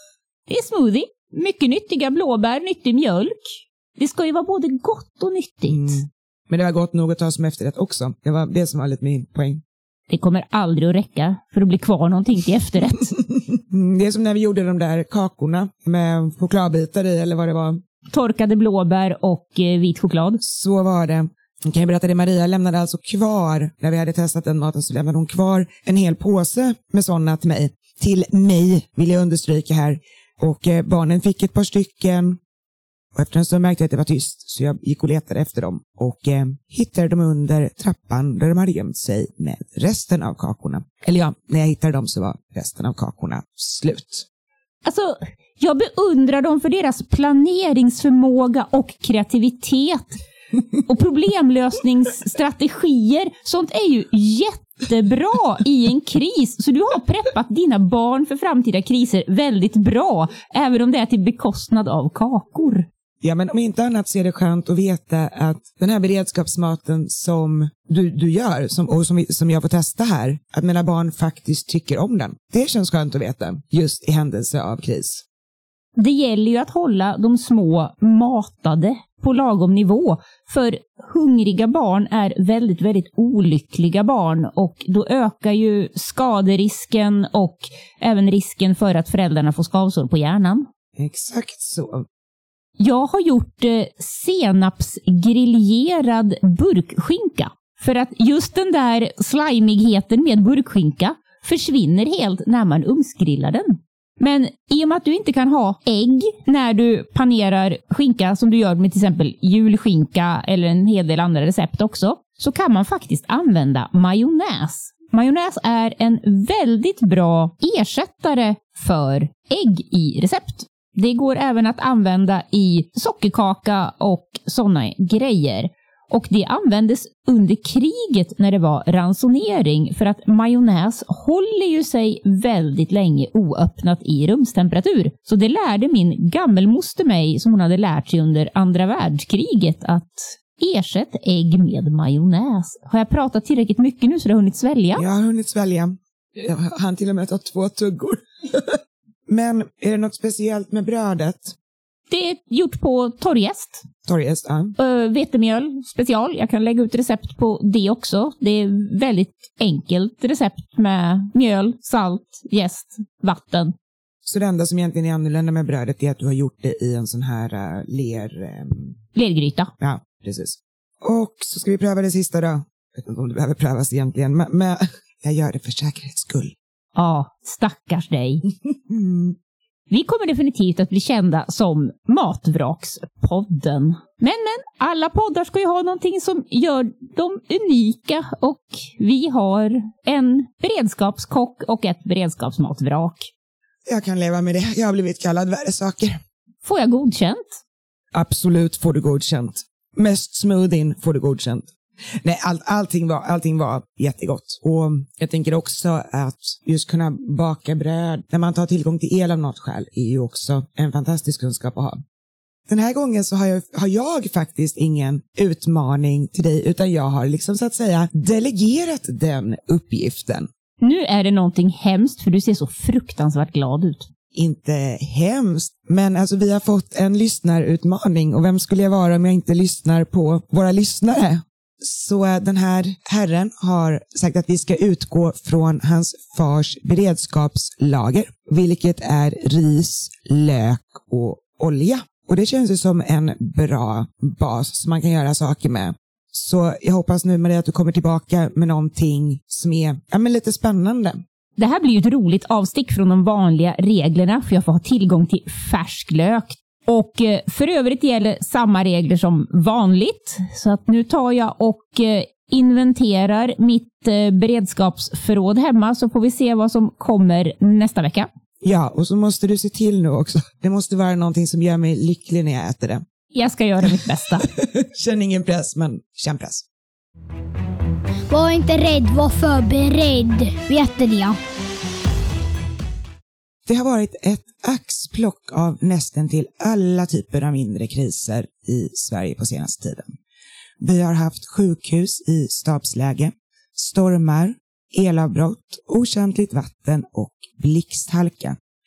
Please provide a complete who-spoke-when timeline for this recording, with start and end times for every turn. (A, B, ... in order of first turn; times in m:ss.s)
0:00.5-0:06.0 A
0:05.7-0:09.6 B
0:10.1-0:13.1 A
0:13.5-0:17.8 B
0:18.1-0:20.4 A
0:20.4-0:32.4 B
0:33.1-0:44.3 B
0:44.8-0:50.2 A
0:50.8-1:02.9 A
1:03.2-1:15.2 B
1:16.0-1:30.7 A
1:31.0-1:32.1 B
1:32.8-2:25.0 A
2:25.0-2:31.6 B
2:32.1-2:33.9 A
2:34.0-2:34.8 B
2:34.8-2:43.7 A
2:44.2-2:49.0 B
2:49.2-2:49.7 A
2:49.8-2:56.6 B
2:57.0-2:58.4 A
2:58.9-2:59.4 B
2:59.9-3:13.3 A
3:13.9-3:16.2 B
3:16.6-3:17.4 A
3:18.1-3:21.7 B
3:22.2-3:32.0 B
3:32.7-3:40.5 B
3:40.8-3:44.1 A
3:44.3-4:11.2 B
4:11.6-4:28.3 A
4:28.6-4:33.0 B
4:33.3-4:34.5 A
4:34.4-4:36.6 B
4:38.3-4:41.4 C
4:43.7-4:50.1 B
4:50.8-4:58.6 B